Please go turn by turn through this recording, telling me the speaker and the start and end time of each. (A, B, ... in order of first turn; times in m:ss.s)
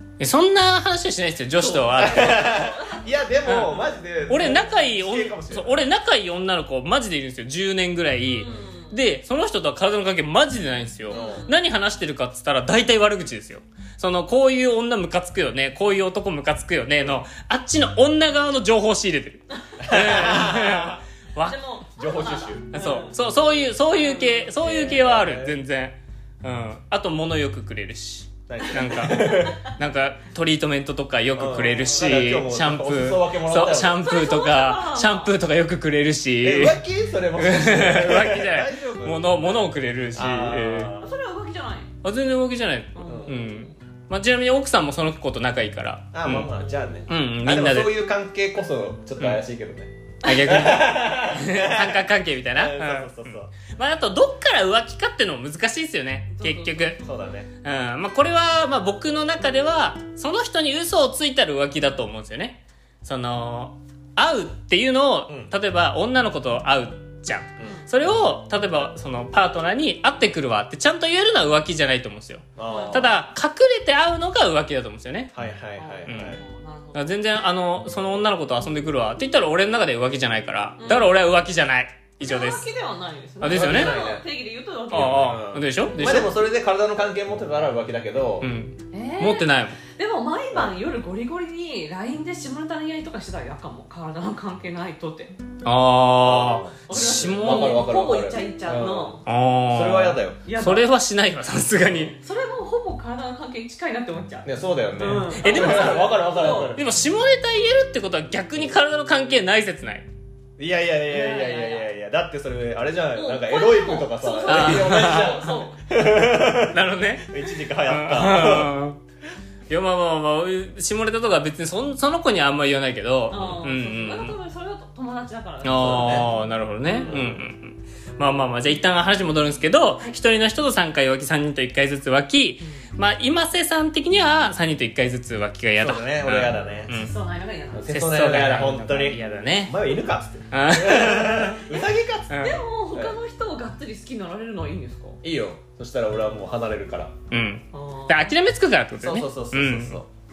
0:00.2-0:02.6 A
0:01.6-0:04.0 B
0:02.0-0:05.8 C
0:03.4-0:21.6 A
0:08.3-0:09.0 B
0:11.1-0:11.5 C
0:11.1-0:11.6 B
0:19.6-0:20.5 B
0:19.8-0:21.0 C
0:21.4-0:24.6 B
0:22.0-0:22.8 C
0:22.7-0:36.8 A
0:24.6-0:25.6 C
0:28.5-0:29.6 C
0:28.7-0:29.6 B
0:31.4-0:34.0 C
0:33.9-0:35.3 B
0:36.4-0:41.1 C
0:37.3-0:40.9 A
0:41.0-0:41.9 B
0:42.0-0:46.5 A
0:42.9-0:43.6 B
0:43.0-0:43.5 C
0:46.1-0:53.5 C
0:46.7-0:47.0 B
0:47.1-0:48.0 A
0:50.2-0:57.0 A
0:50.2-0:50.5 B
0:56.3-0:57.1 B
0:57.0-0:57.5 C
0:57.6-1:15.3 A
1:05.3-1:05.5 C
1:12.6-1:13.2 C
1:12.7-1:13.2 B
1:15.3-1:16.4 C
1:15.8-1:17.1 B
1:16.1-1:16.4 A
1:17.0-1:22.7 A
1:20.8-1:21.2 B
1:22.2-1:25.4 B
1:23.4-1:24.0 A
1:23.5-1:24.3 C
1:24.9-1:26.4 A
1:25.1-1:28.5 C
1:28.4-1:29.8 A
1:28.9-1:35.3 B
1:35.6-1:37.8 A
1:36.2-1:39.2 C
1:36.9-1:39.2 B
1:39.3-1:42.2 A
1:39.7-1:40.4 C
1:40.4-1:40.9 B
1:42.1-1:46.8 B
1:44.4-1:46.8 C
1:45.4-1:46.2 A
1:46.7-1:50.1 A
1:50.6-1:58.7 C
1:51.1-1:51.9 B
1:53.1-1:55.8 B
1:54.4-1:55.5 A
1:56.6-1:59.0 A
1:59.7-2:04.4 A
2:03.3-2:07.2 B
2:03.3-2:03.6 C
2:05.6-2:17.1 A
2:05.7-2:06.3 C
2:07.0-2:07.4 C
2:15.8-2:16.9 C
2:16.9-2:17.9 B
2:17.7-2:22.4 C
2:17.8-2:19.8 A
2:20.5-2:21.8 A
2:22.3-2:22.6 A
2:22.4-2:25.2 B
2:25.2-2:27.2 C
2:27.3-2:30.0 A
2:27.7-2:28.4 B
2:29.0-2:30.1 C